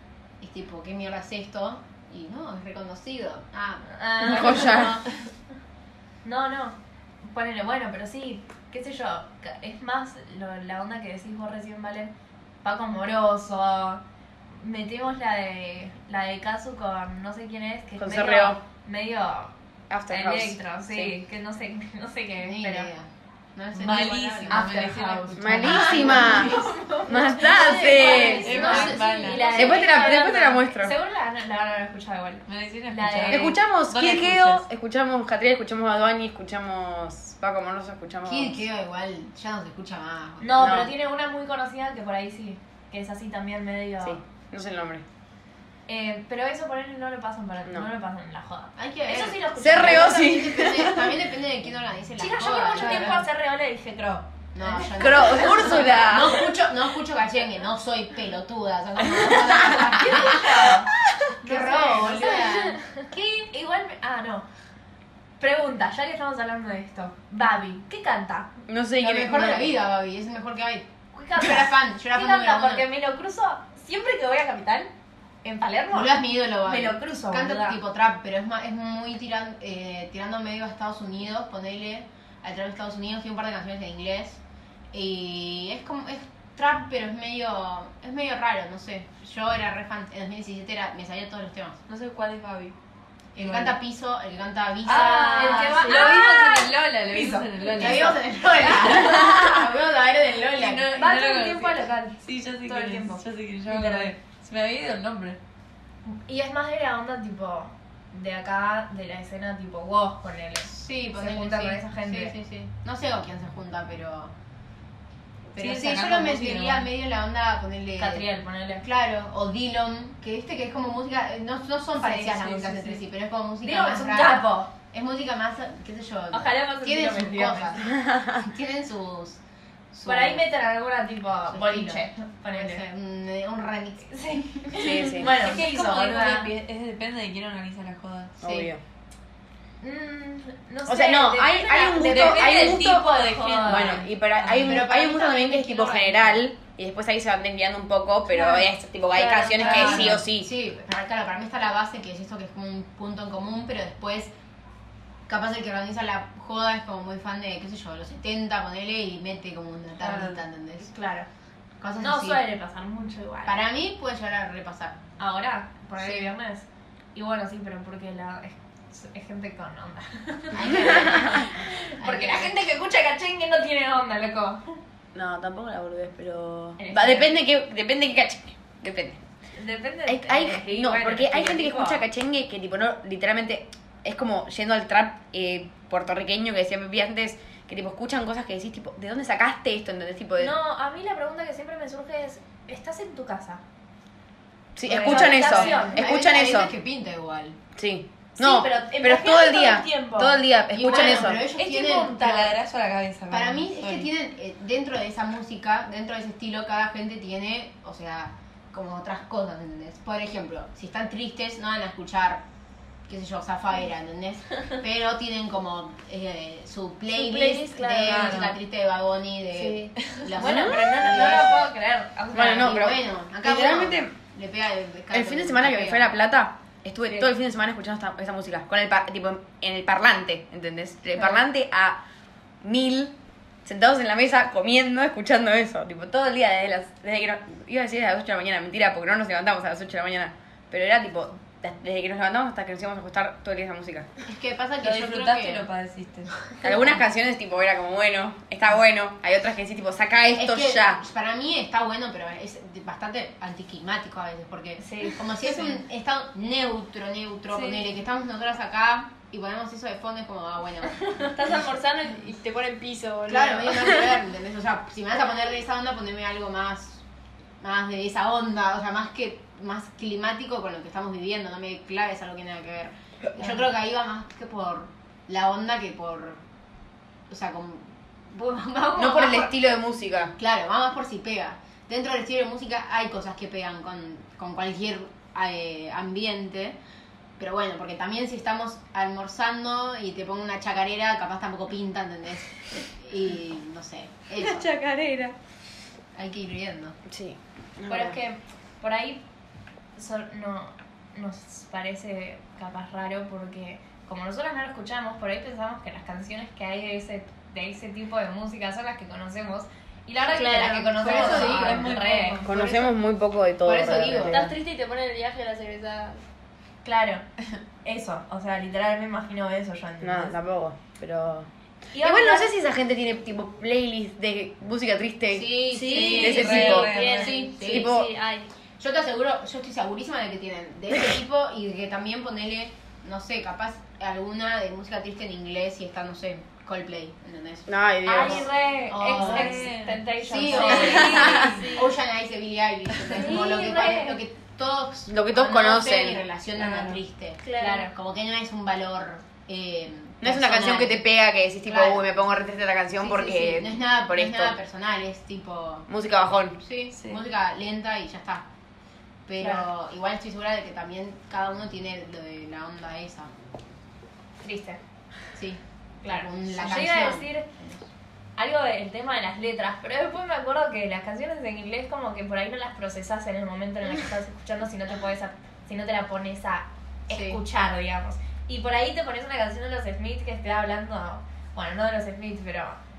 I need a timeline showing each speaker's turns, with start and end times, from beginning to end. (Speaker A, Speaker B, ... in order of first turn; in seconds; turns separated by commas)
Speaker A: 0.4-3.9, Speaker B: 3.9-5.1, Speaker C: 4.2-5.0, Speaker B: 6.2-19.5, Speaker C: 18.0-18.6, Speaker C: 19.9-21.1, Speaker B: 20.1-22.9, Speaker A: 22.4-24.9, Speaker D: 23.7-26.7, Speaker B: 24.5-33.6, Speaker C: 25.4-28.9, Speaker D: 27.3-29.7, Speaker A: 28.3-29.0, Speaker E: 28.6-29.4, Speaker C: 29.5-30.9, Speaker D: 32.5-34.6, Speaker C: 33.3-38.5, Speaker A: 38.2-40.7, Speaker B: 40.4-44.2, Speaker C: 40.6-40.9, Speaker C: 44.0-45.0, Speaker B: 45.9-50.2, Speaker A: 48.8-53.3, Speaker C: 49.6-51.2, Speaker B: 52.2-55.9, Speaker A: 54.5-60.8, Speaker C: 55.0-56.5, Speaker B: 59.7-60.9, Speaker A: 61.4-62.8, Speaker B: 61.4-64.5, Speaker B: 65.4-68.5, Speaker C: 68.7-69.7, Speaker A: 69.0-72.8, Speaker B: 71.1-74.9, Speaker B: 75.4-77.8, Speaker A: 75.9-84.4, Speaker A: 84.9-91.8, Speaker D: 91.9-92.8, Speaker A: 93.3-96.1, Speaker D: 93.4-93.8, Speaker D: 94.8-99.5, Speaker B: 94.9-98.1, Speaker A: 97.7-101.0, Speaker B: 99.0-99.3, Speaker B: 100.6-104.1, Speaker D: 100.6-105.4, Speaker B: 106.0-112.3, Speaker A: 110.6-114.3, Speaker D: 115.5-116.9, Speaker A: 115.5-118.2, Speaker B: 118.0-118.8, Speaker A: 118.8-129.4, Speaker B: 122.0-123.0, Speaker B: 123.6-124.7, Speaker B: 126.3-127.8, Speaker C: 127.9-128.4, Speaker A: 129.9-130.5, Speaker B: 130.0-132.8, Speaker A: 131.5-134.7, Speaker B: 134.1-136.5, Speaker C: 134.7-135.3, Speaker D: 135.2-138.4, Speaker C: 138.4-138.8, Speaker A: 138.4-138.7, Speaker B: 139.8-144.1, Speaker C: 140.8-143.1, Speaker D: 142.0-144.8, Speaker C: 143.6-150.5, Speaker A: 144.6-146.4, Speaker B: 148.3-150.2, Speaker A: 149.5-154.3, Speaker D: 149.6-150.0, Speaker A: 155.3-160.9, Speaker B: 160.0-161.3, Speaker A: 161.8-162.4, Speaker B: 162.0-163.6, Speaker A: 163.4-165.0, Speaker B: 165.2-174.8, Speaker A: 166.0-166.3, Speaker A: 170.5-172.5, Speaker C: 171.0-171.4, Speaker C: 175.1-179.2, Speaker B: 176.8-177.4, Speaker B: 179.6-182.0, Speaker C: 180.1-190.5, Speaker B: 190.4-193.6, Speaker C: 194.8-196.7, Speaker B: 194.9-196.1, Speaker A: 194.9-197.6, Speaker C: 197.8-201.4, Speaker B: 198.4-202.5, Speaker A: 200.7-202.5, Speaker D: 202.2-204.1, Speaker A: 203.3-212.4, Speaker A: 213.1-221.7, Speaker E: 217.1-218.5, Speaker D: 218.0-218.5, Speaker E: 219.5-219.9, Speaker B: 220.3-222.8, Speaker C: 222.3-224.1, Speaker A: 222.5-226.1, Speaker C: 225.1-232.0, Speaker C: 232.6-233.1, Speaker C: 233.6-244.1, Speaker A: 244.2-245.7, Speaker D: 244.8-246.5, Speaker C: 246.6-251.0, Speaker A: 250.3-261.2, Speaker B: 254.8-255.3, Speaker E: 261.3-264.1, Speaker A: 263.3-267.0, Speaker A: 267.6-276.4, Speaker A: 277.3-279.5, Speaker C: 278.9-280.3, Speaker A: 280.4-286.8, Speaker A: 287.4-294.7, Speaker A: 296.1-297.0, Speaker C: 297.1-298.2, Speaker B: 297.9-299.2, Speaker B: 300.0-312.5, Speaker E: 310.3-311.5, Speaker A: 311.0-311.9, Speaker D: 311.0-312.9, Speaker C: 312.4-314.5, Speaker A: 313.6-314.5, Speaker E: 314.2-316.2, Speaker B: 316.8-317.2, Speaker B: 317.8-320.4, Speaker C: 320.0-321.5, Speaker B: 321.9-322.5, Speaker C: 322.0-328.1, Speaker A: 325.3-327.9, Speaker E: 325.7-328.5, Speaker D: 325.9-327.4, Speaker A: 328.8-339.7, Speaker C: 337.7-338.5, Speaker B: 338.0-341.6, Speaker D: 339.1-341.5, Speaker A: 340.2-351.0, Speaker E: 340.7-341.9, Speaker B: 343.1-344.2, Speaker E: 343.1-343.6, Speaker C: 345.1-346.2, Speaker D: 346.6-347.0, Speaker E: 347.4-347.9, Speaker C: 350.2-354.5, Speaker A: 351.7-352.1, Speaker A: 353.0-355.9, Speaker C: 355.9-356.6, Speaker A: 356.6-358.4, Speaker D: 356.9-357.2, Speaker A: 359.3-363.3, Speaker B: 364.4-364.8, Speaker A: 365.3-367.9, Speaker B: 366.0-367.5, Speaker B: 368.4-382.8, Speaker A: 377.1-377.4